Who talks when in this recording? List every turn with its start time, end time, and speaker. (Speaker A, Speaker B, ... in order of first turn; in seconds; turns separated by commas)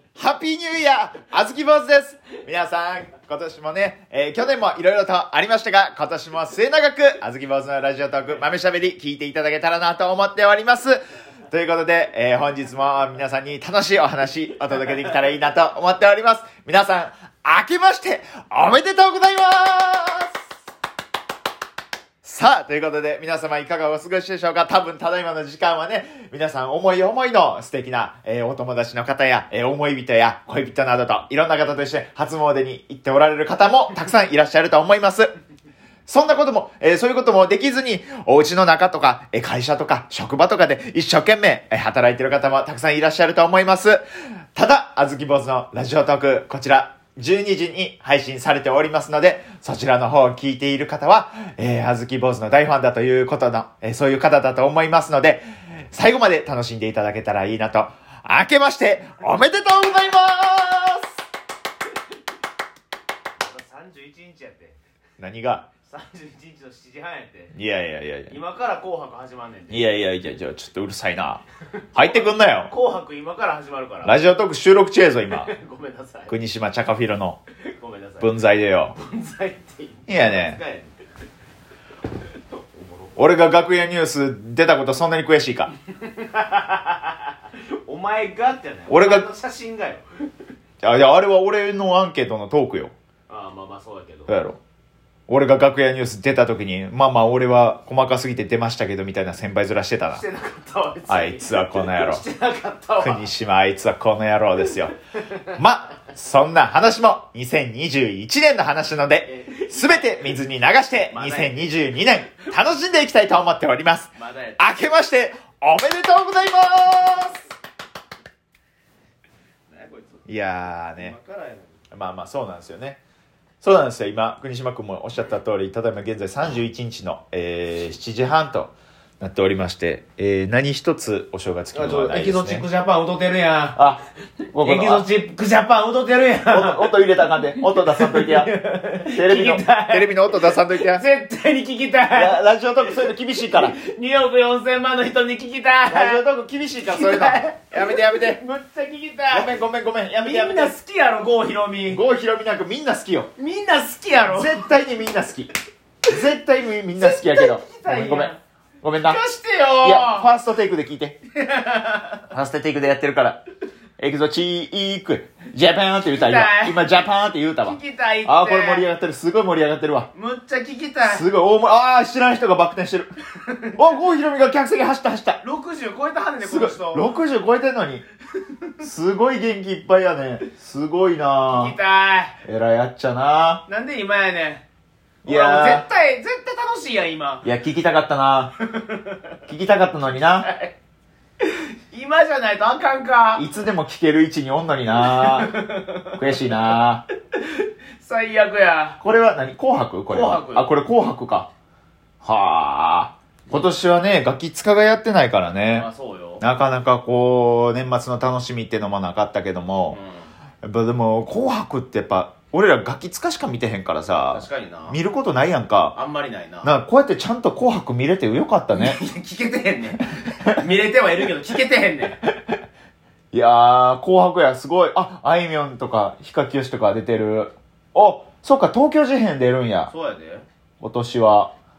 Speaker A: 0.1-20.3, Speaker A: 22.2-35.3, Speaker A: 36.0-61.1, Speaker B: 63.4-64.8, Speaker A: 65.2-65.7, Speaker B: 65.8-67.5, Speaker A: 67.5-68.3, Speaker B: 68.3-69.9, Speaker A: 69.7-71.4, Speaker A: 71.9-72.7, Speaker B: 71.9-74.2, Speaker A: 74.0-75.5, Speaker B: 75.3-76.3, Speaker A: 76.3-77.4, Speaker B: 77.7-78.3, Speaker A: 78.2-79.0, Speaker B: 78.9-81.0, Speaker A: 80.1-80.6, Speaker B: 82.5-83.2, Speaker A: 83.2-85.7, Speaker B: 85.9-90.0, Speaker A: 88.9-89.3, Speaker A: 90.8-92.9, Speaker B: 93.3-94.3, Speaker A: 94.3-94.6, Speaker A: 95.3-100.2, Speaker B: 100.1-103.3, Speaker A: 101.1-102.2, Speaker A: 103.0-104.9, Speaker A: 105.5-117.4, Speaker B: 109.2-110.4, Speaker B: 111.1-111.8, Speaker B: 114.2-114.7, Speaker B: 119.7-121.8, Speaker A: 120.3-121.1, Speaker A: 121.9-123.0, Speaker A: 123.6-132.7, Speaker B: 131.7-133.8, Speaker A: 133.7-134.0, Speaker A: 134.5-135.1, Speaker B: 134.6-142.4, Speaker A: 136.5-138.5, Speaker A: 139.1-141.0, Speaker A: 142.1-143.8, Speaker B: 143.0-146.2, Speaker A: 145.9-148.4, Speaker B: 146.8-149.5, Speaker A: 149.3-150.7, Speaker B: 150.2-152.0, Speaker A: 151.9-153.3, Speaker B: 153.4-154.7, Speaker A: 154.2-155.5, Speaker A: 156.0-159.2, Speaker B: 156.9-158.4, Speaker B: 159.0-160.3, Speaker A: 159.8-161.2, Speaker B: 161.3-162.2, Speaker A: 162.2-163.4, Speaker A: 164.0-170.1, Speaker B: 166.1-167.0, Speaker B: 167.6-168.9, Speaker B: 170.1-171.3, Speaker A: 171.0-173.1, Speaker B: 173.4-174.0, Speaker A: 173.7-175.4, Speaker B: 175.4-177.1, Speaker A: 176.4-178.0, Speaker A: 178.8-181.8, Speaker B: 181.5-182.4, Speaker A: 182.4-183.6, Speaker B: 183.7-184.6, Speaker A: 185.2-185.8, Speaker B: 185.2-187.4, Speaker A: 187.4-188.5, Speaker B: 188.6-189.2, Speaker A: 189.5-190.5, Speaker B: 190.4-190.7, Speaker B: 191.4-193.4, Speaker A: 193.3-195.6, Speaker B: 195.0-196.8, Speaker A: 196.1-197.1, Speaker B: 197.3-199.0, Speaker A: 199.0-201.5, Speaker B: 200.1-200.7, Speaker A: 202.2-205.9, Speaker B: 205.7-206.4, Speaker A: 206.4-210.0, Speaker B: 209.9-210.2, Speaker A: 210.6-216.0, Speaker B: 214.3-215.0, Speaker B: 215.9-216.7, Speaker A: 216.6-219.0, Speaker B: 218.7-222.2, Speaker A: 223.3-229.9, Speaker B: 229.9-230.4, Speaker A: 230.8-231.5